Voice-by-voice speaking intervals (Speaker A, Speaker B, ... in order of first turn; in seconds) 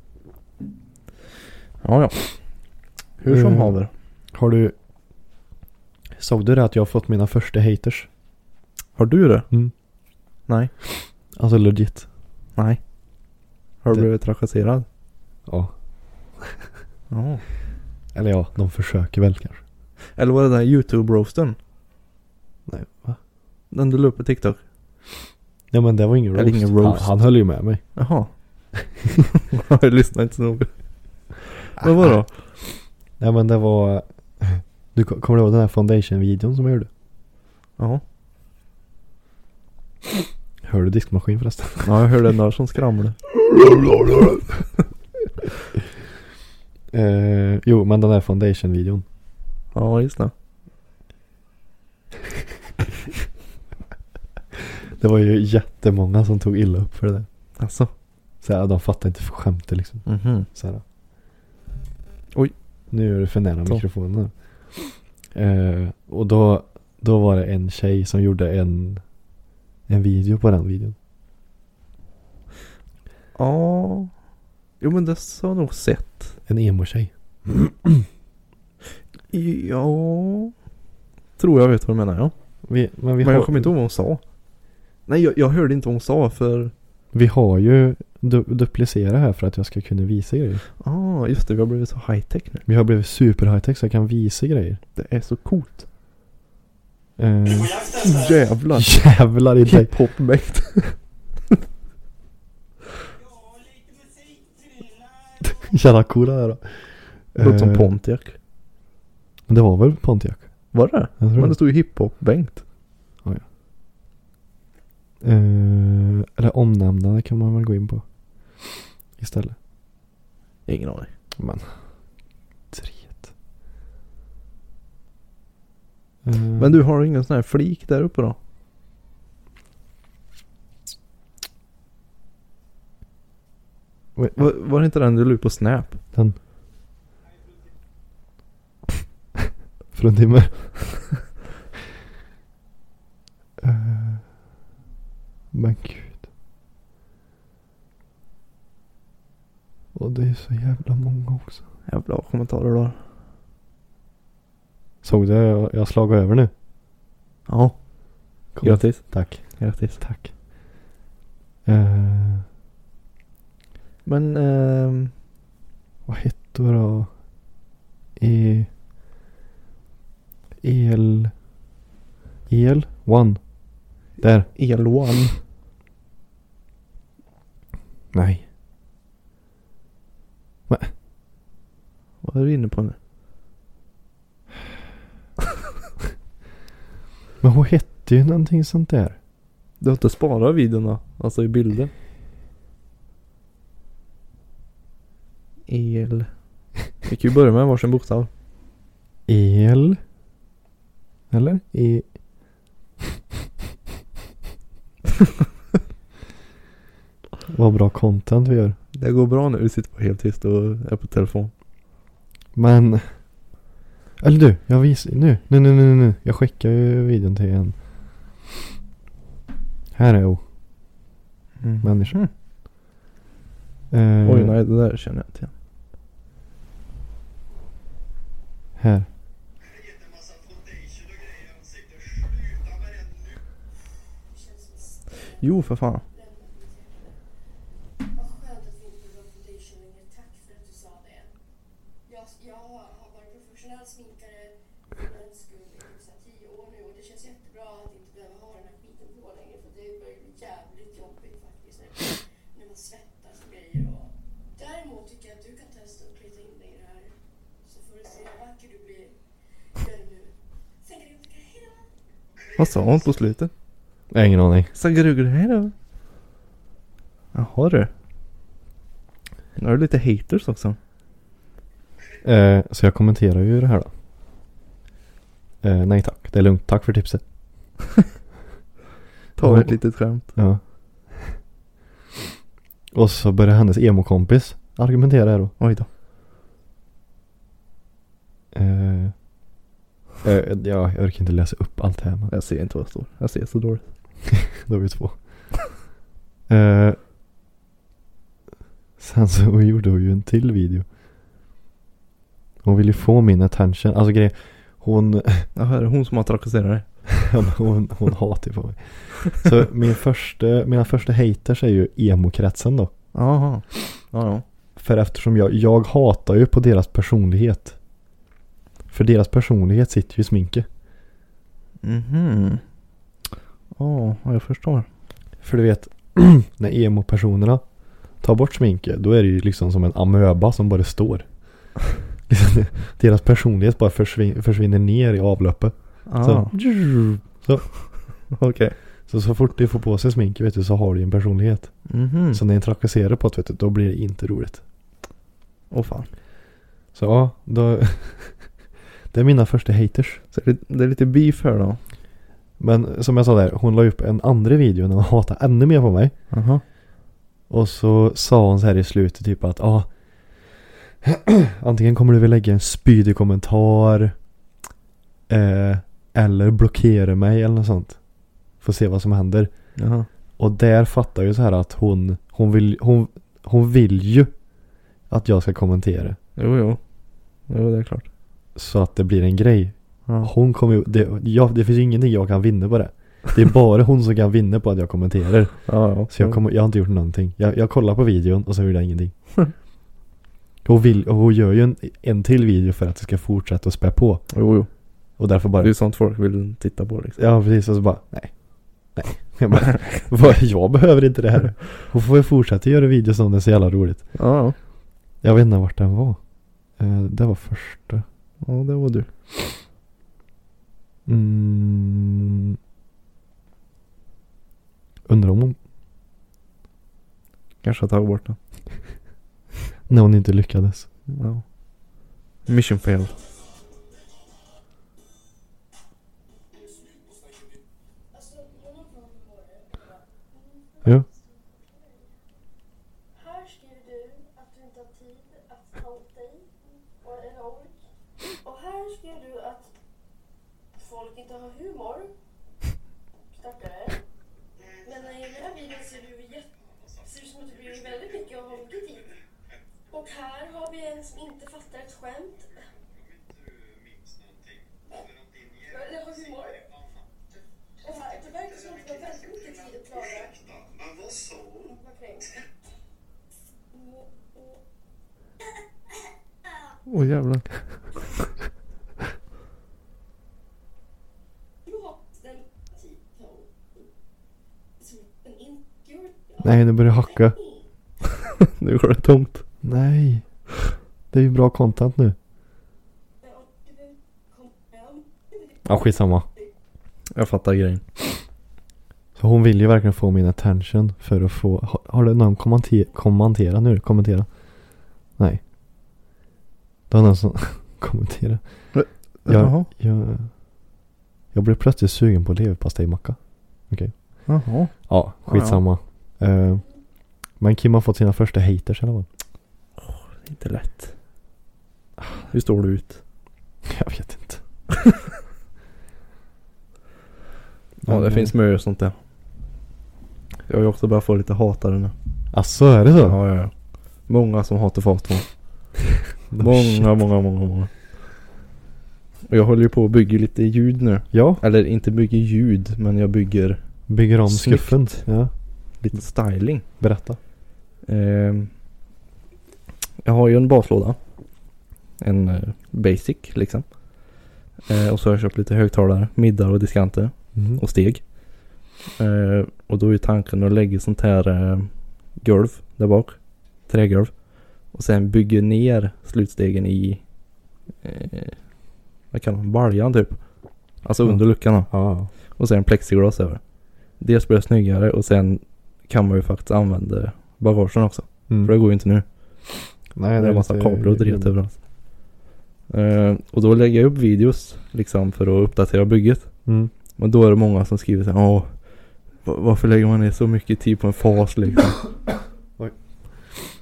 Speaker A: 1.8-2.4, 3.2-3.9, 8.9-9.5, 13.8-14.8, 17.1-17.4, 20.1-21.6, 23.7-24.6, 26.3-27.2, 27.9-28.3, 29.5-30.7, 31.4-32.4, 41.8-43.1, 49.7-50.3, 57.6-57.9, 60.0-60.5, 73.3-74.1, 74.8-76.4, 79.3-80.5, 81.4-82.3, 83.2-84.2, 85.0-86.7, 90.8-92.6, 95.0-95.8, 98.0-99.1, 99.6-100.9, 107.3-108.3, 110.7-112.6, 120.7-121.1, 126.6-128.4, 134.3-136.0, 151.9-153.0, 157.4-157.8, 158.4-160.0, 164.0-165.1, 174.5-175.4, 182.2-182.9, 189.8-191.9, 195.7-198.3, 208.9-211.5, 221.6-222.3, 224.2-225.5, 235.4-236.0, 262.6-263.5, 264.7-265.7, 267.3-267.9, 269.6-270.8, 279.4-280.3, 285.6-285.9, 292.3-293.9, 305.5-307.1, 313.1-314.4, 321.8-322.6, 323.8-324.9, 336.1-336.5, 338.3-338.8, 341.9-342.4, 345.7-346.1, 350.3-351.8, 356.3-356.6, 369.8-370.1, 376.4-376.8, 377.5-378.1, 385.6-386.4, 394.3-394.7, 395.6-397.2, 404.1-404.6, 408.4-409.1, 417.6-418.4, 421.1-421.4, 422.4-423.1, 466.9-467.5, 478.6-479.4, 487.1-487.8, 498.7-499.7, 504.2-505.6, 509.8-510.9, 512.3-513.0, 517.8-518.9, 520.5-521.9, 523.0-523.5, 524.0-525.3, 526.4-527.7, 529.3-535.0, 535.8-536.6, 537.8-538.5, 540.0-541.0, 542.0-544.1, 544.6-557.0, 557.8-558.5, 559.1-571.6, 572.7-576.3, 576.9-581.8
Speaker B: 3.3-3.8, 4.3-4.7, 6.2-8.1, 11.3-12.1, 15.5-15.7, 16.4-16.6, 18.1-19.6, 22.7-23.2, 25.7-27.8, 31.8-32.2, 33.2-36.9, 40.6-42.0, 43.4-44.5, 46.9-49.0, 54.9-57.3, 58.4-60.8, 62.9-69.0, 69.9-71.0, 76.5-78.0, 82.6-83.7, 87.1-90.6, 92.7-94.8, 97.2-98.1, 98.7-99.9, 105.4-107.9, 109.5-111.5, 115.2-118.0, 118.5-119.5, 121.4-121.7, 122.7-123.3, 126.2-126.8, 134.2-134.4, 139.9-141.2, 143.6-144.3, 145.5-146.2, 149.9-151.6, 155.0-156.5, 158.5-160.3, 161.6-162.4, 166.1-167.2, 168.2-168.7, 170.6-171.3, 172.5-174.5, 178.1-178.4, 187.4-189.2, 199.3-200.0, 201.3-202.1, 207.5-208.8, 212.5-213.1, 214.2-218.4, 219.9-220.4, 221.8-222.2, 223.9-224.6, 228.8-229.1, 264.1-264.7, 272.2-273.9, 275.6-277.2, 279.4-281.4, 282.9-285.5, 288.5-289.2, 290.2-292.3, 294.5-295.5, 296.5-297.0, 299.0-300.9, 302.6-305.5, 307.2-312.9, 314.8-317.8, 318.9-320.7, 325.4-327.6, 328.2-331.3, 332.3-337.8, 339.1-344.6, 346.9-348.5, 349.1-350.2, 352.6-356.1, 357.5-364.1, 365.3-368.0, 368.6-369.5, 370.4-374.3, 375.1-376.2, 378.5-389.1, 390.6-394.4, 395.2-395.8, 397.2-404.1, 405.2-406.2, 406.8-408.0, 411.1-412.6, 415.1-415.6, 419.9-420.9, 476.4-477.4, 479.6-480.2, 481.1-482.1, 485.6-486.2, 489.1-495.4, 496.9-500.3, 501.3-504.3, 504.9-506.6, 507.4-509.1, 513.6-514.4, 517.9-518.3, 522.3-523.2, 526.3-526.9, 531.1-531.4, 533.9-535.3, 536.7-537.2, 547.3-547.6, 561.0-562.1, 569.9-571.4, 576.5-576.7
Speaker C: 234.3-237.1, 238.1-241.3, 242.1-259.2, 259.8-261.9, 262.4-263.2, 426.5-427.4, 428.1-432.3, 433.1-437.8, 438.4-439.7, 440.8-442.1, 443.3-444.0, 444.8-449.1, 449.9-452.7, 454.9-456.8, 457.8-460.6, 461.4-462.6, 463.7-464.6, 471.6-473.8, 474.8-477.6, 483.2-486.4